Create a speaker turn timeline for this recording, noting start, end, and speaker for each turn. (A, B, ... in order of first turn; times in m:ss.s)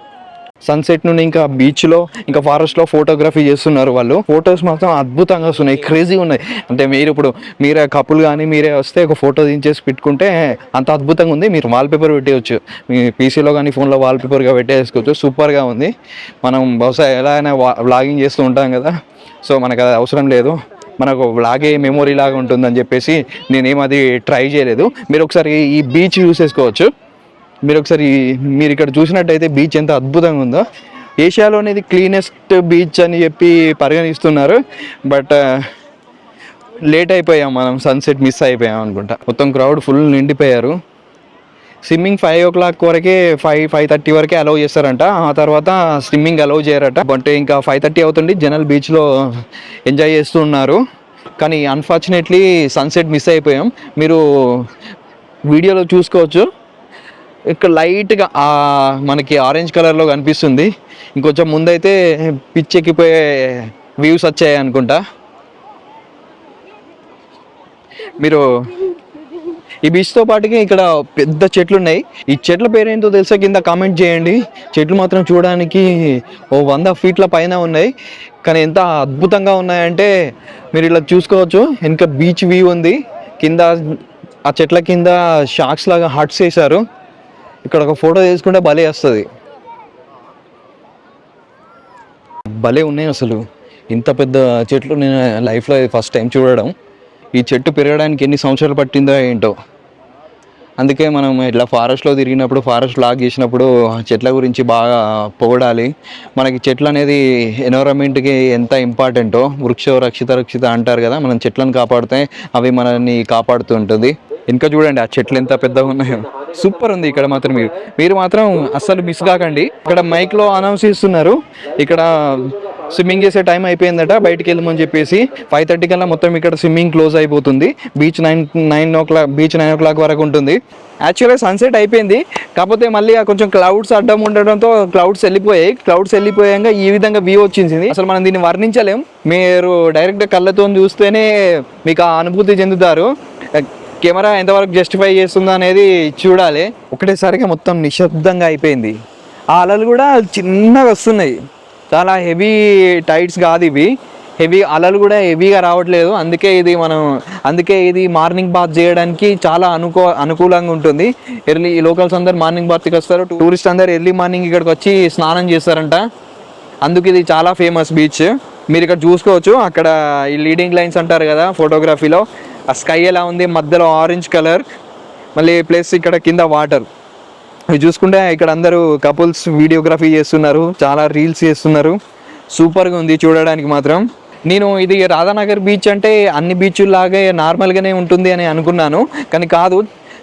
0:00.6-0:15.9 A
0:16.4-0:18.9 A
0:19.4-0:26.9 A
0:27.6-0:30.7 A
0:31.2-0:35.6 A
0:36.9-0:40.7 A
0:41.8-0:49.1 A
0:49.9-0:50.8 A
0:51.4-0:54.6 A
0:55.5-0:56.4 A
0:57.5-1:05.0 A
1:08.2-1:08.8 A
1:09.8-1:17.9 A
1:18.4-1:20.1 A
1:20.7-1:26.8 A
1:27.6-1:29.3 A
1:32.6-1:36.7 A
1:37.3-1:39.5 A
1:40.8-2:29.0 A
2:29.5-2:31.4 A
2:31.9-2:46.0 A
2:46.8-2:54.6 A
2:55.4-2:56.8 A
2:57.7-3:02.0 A
3:02.5-3:09.8 A